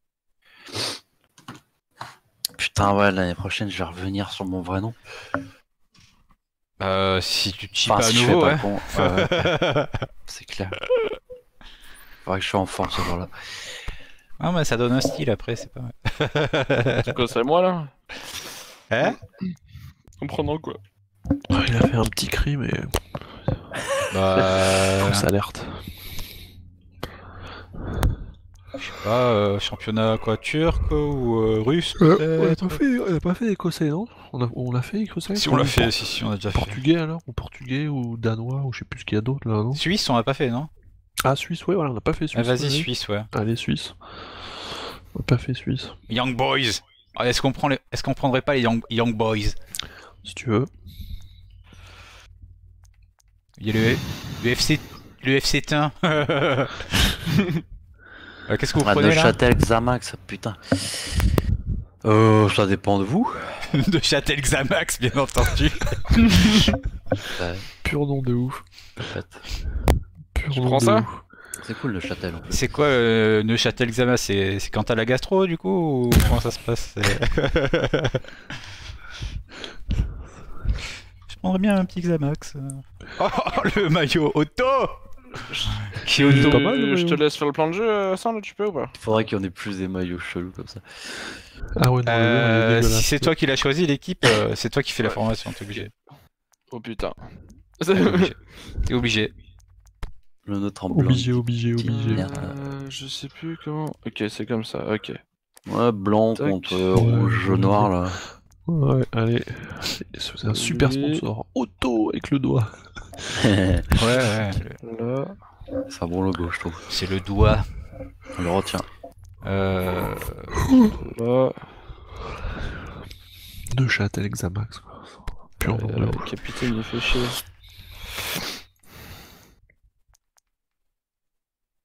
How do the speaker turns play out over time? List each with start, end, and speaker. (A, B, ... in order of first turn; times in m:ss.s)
0:02.6-0:05.0 A
0:06.8-0:10.1 B
0:07.8-0:09.5 A
0:10.3-0:10.8 A
0:12.2-0:13.4 A
0:14.4-0:17.1 B
0:17.0-0:17.9 C
0:18.9-0:19.2 B
0:20.2-0:20.8 C
0:21.5-0:23.4 D
0:24.1-0:25.3 B
0:25.0-0:26.0 D
0:28.8-0:32.8 B
0:32.0-0:35.9 D
0:35.3-0:36.8 B
0:36.5-0:39.8 D
0:39.7-0:40.7 B
0:41.2-0:44.5 D
0:42.3-0:43.3 B
0:45.1-0:46.0 D
0:46.1-0:49.6 B
0:50.2-0:50.7 D
0:53.6-0:57.2 B
0:58.5-0:59.4 B
0:58.8-1:01.2 A
1:02.0-1:03.7 A
1:03.7-1:06.7 B
1:07.3-1:07.7 A
1:07.8-1:08.6 D
1:09.0-1:09.4 A
1:10.3-1:11.2 D
1:10.5-1:11.0 C
1:11.6-1:12.6 A
1:12.5-1:18.2 B
1:21.3-1:25.0 B
1:25.5-1:28.9 C
1:25.8-1:26.6 B
1:26.2-1:27.2 D
1:29.0-1:31.1 A
1:31.7-1:33.3 D
1:32.0-1:35.9 B
1:36.7-1:38.4 C
1:38.0-1:39.3 B
1:40.4-1:42.7 A
1:40.9-1:42.3 D
1:41.9-1:45.2 C
1:45.7-1:48.2 A
1:46.3-1:47.0 C
1:46.9-1:48.0 D
1:48.6-1:52.8 D
1:50.4-1:51.2 C
1:53.3-1:53.9 A
1:53.9-1:54.8 B
1:54.8-1:55.4 C
1:55.9-1:56.8 A
1:56.9-1:57.7 B
1:58.3-1:58.9 A
1:59.4-2:00.6 B
2:00.9-2:01.8 C
2:03.7-2:06.3 D
2:05.6-2:07.4 C